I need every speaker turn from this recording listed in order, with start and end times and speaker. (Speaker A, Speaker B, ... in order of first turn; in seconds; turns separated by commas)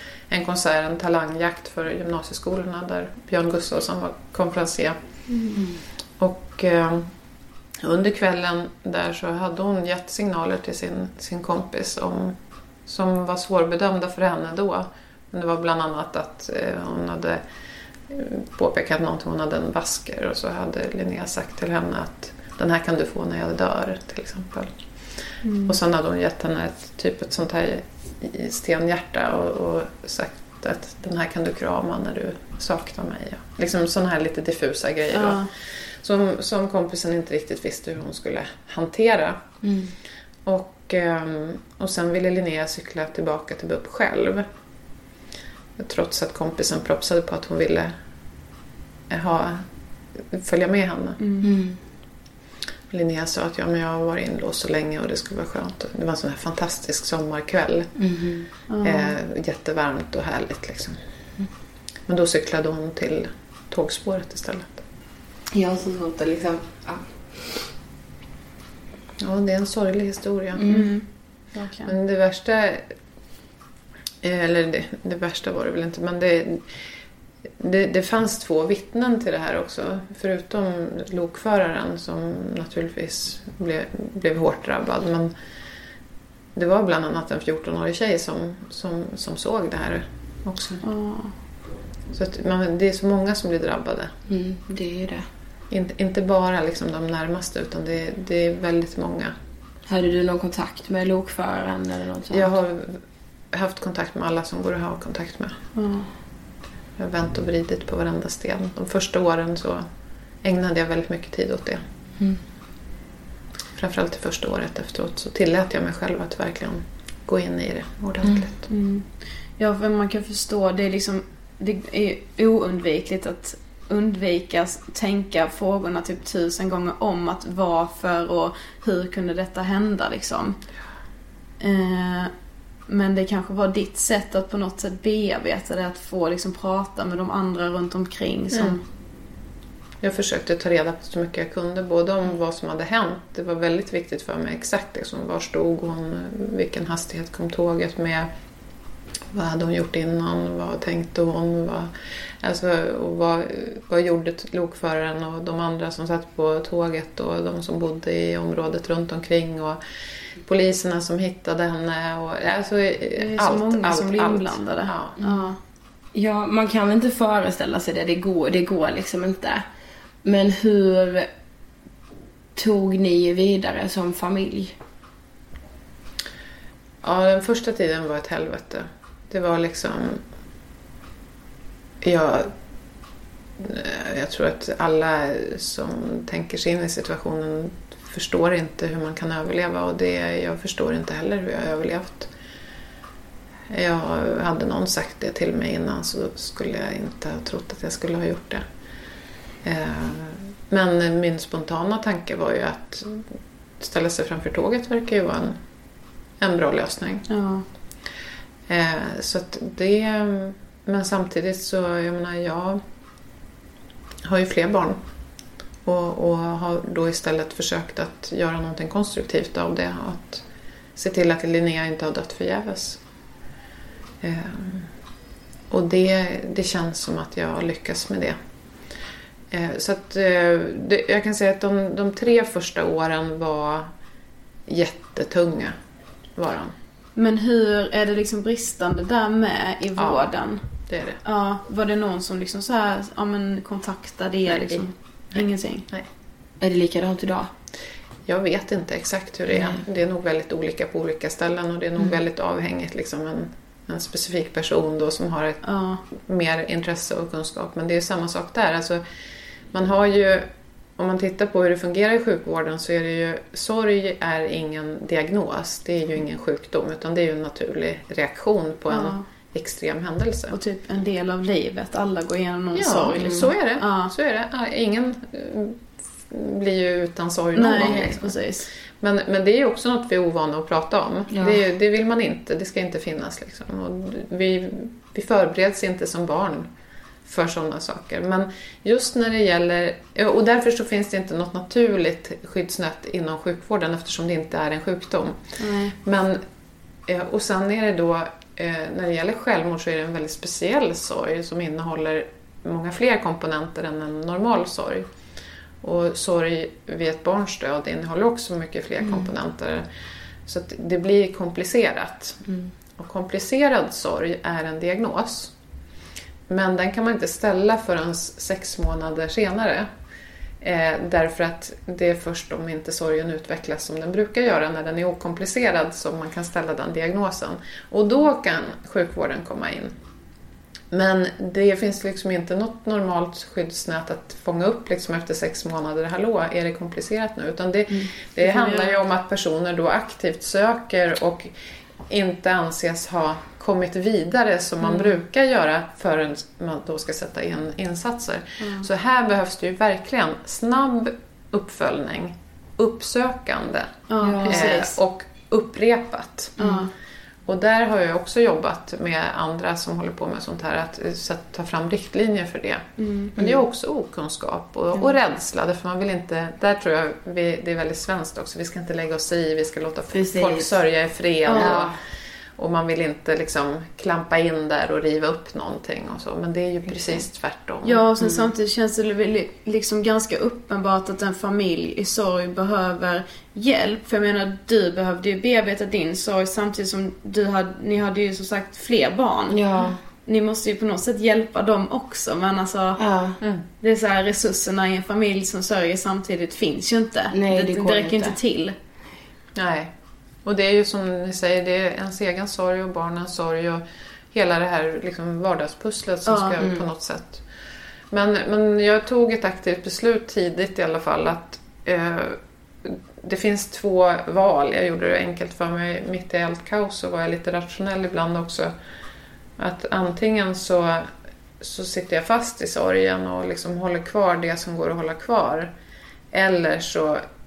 Speaker A: 0.3-5.0, Speaker B: 5.3-5.6, Speaker A: 6.2-7.1, Speaker A: 7.8-17.4, Speaker A: 18.1-24.7, Speaker B: 25.4-25.8, Speaker A: 25.7-39.5, Speaker B: 35.1-35.5, Speaker C: 39.6-39.9, Speaker A: 40.5-44.5, Speaker A: 45.8-48.0, Speaker A: 49.1-49.6, Speaker A: 50.2-51.2, Speaker B: 51.2-51.5, Speaker C: 51.4-51.8, Speaker A: 52.9-57.9, Speaker C: 58.0-58.5, Speaker B: 58.7-59.1, Speaker A: 58.8-61.0, Speaker A: 62.1-64.8, Speaker C: 65.5-67.6, Speaker A: 69.2-70.7, Speaker C: 70.5-71.0, Speaker B: 70.7-71.0, Speaker B: 71.6-71.9, Speaker A: 71.8-72.9, Speaker A: 74.2-76.6, Speaker A: 77.6-85.3, Speaker A: 86.5-90.8, Speaker B: 90.8-91.3, Speaker A: 92.1-94.1, Speaker C: 94.3-95.3, Speaker A: 95.7-99.3, Speaker C: 99.9-102.5, Speaker A: 102.3-105.5, Speaker B: 105.7-106.1, Speaker A: 107.0-109.9, Speaker A: 110.4-111.8, Speaker A: 113.8-118.7, Speaker C: 118.2-118.5, Speaker B: 118.7-119.1, Speaker B: 119.6-130.6, Speaker B: 131.6-132.3, Speaker B: 132.9-138.8, Speaker A: 138.5-138.8, Speaker A: 140.0-148.3, Speaker A: 149.3-159.8, Speaker A: 160.4-165.2, Speaker B: 163.2-165.6, Speaker C: 165.2-165.5, Speaker C: 166.1-169.6, Speaker C: 170.2-171.3, Speaker C: 172.6-174.7, Speaker A: 177.0-180.2, Speaker A: 182.0-182.5, Speaker A: 183.6-192.3, Speaker A: 193.7-198.6, Speaker A: 199.6-203.3, Speaker A: 203.8-205.6, Speaker A: 206.4-207.3, Speaker B: 207.3-207.6, Speaker A: 208.7-212.8, Speaker A: 214.2-215.0, Speaker A: 215.8-220.4, Speaker A: 220.9-223.0, Speaker A: 224.2-224.9, Speaker A: 225.7-228.4, Speaker A: 229.5-233.9, Speaker A: 234.7-235.8, Speaker A: 236.4-236.7, Speaker B: 237.2-240.6, Speaker A: 240.0-240.3, Speaker A: 240.9-241.2, Speaker B: 241.2-245.9, Speaker A: 244.5-246.1, Speaker C: 246.6-247.5, Speaker A: 248.3-259.0, Speaker C: 249.5-249.8, Speaker B: 255.6-256.0, Speaker A: 259.7-270.6, Speaker B: 268.9-269.2, Speaker B: 270.5-274.1, Speaker A: 272.7-278.4, Speaker B: 277.6-278.7, Speaker C: 277.8-278.1, Speaker A: 279.0-286.7, Speaker C: 281.3-281.6, Speaker A: 287.3-295.4, Speaker B: 295.6-295.9, Speaker A: 296.0-296.4, Speaker A: 297.1-305.1, Speaker A: 305.8-309.9, Speaker C: 309.0-309.3, Speaker A: 310.4-312.4, Speaker A: 313.0-315.5, Speaker A: 316.5-319.9, Speaker A: 320.6-329.9, Speaker A: 330.9-341.5, Speaker B: 338.4-339.0, Speaker A: 342.1-356.6, Speaker B: 344.8-345.1, Speaker B: 348.6-348.9, Speaker B: 354.1-354.9, Speaker C: 354.2-354.8, Speaker B: 356.6-356.9, Speaker C: 356.6-356.9, Speaker A: 357.5-371.9, Speaker B: 363.0-363.3, Speaker C: 370.1-370.8, Speaker B: 371.5-371.8, Speaker C: 371.5-371.9, Speaker A: 372.6-378.0, Speaker B: 377.8-389.6, Speaker C: 378.2-378.5, Speaker C: 389.5-390.0, Speaker B: 390.2-393.0, Speaker C: 393.0-393.4, Speaker B: 393.8-398.7, Speaker C: 397.3-398.4, Speaker A: 399.6-399.9, Speaker A: 400.4-407.4, Speaker B: 406.3-406.6, Speaker A: 408.1-418.7, Speaker A: 419.6-421.1, Speaker A: 421.6-425.7, Speaker A: 426.3-427.2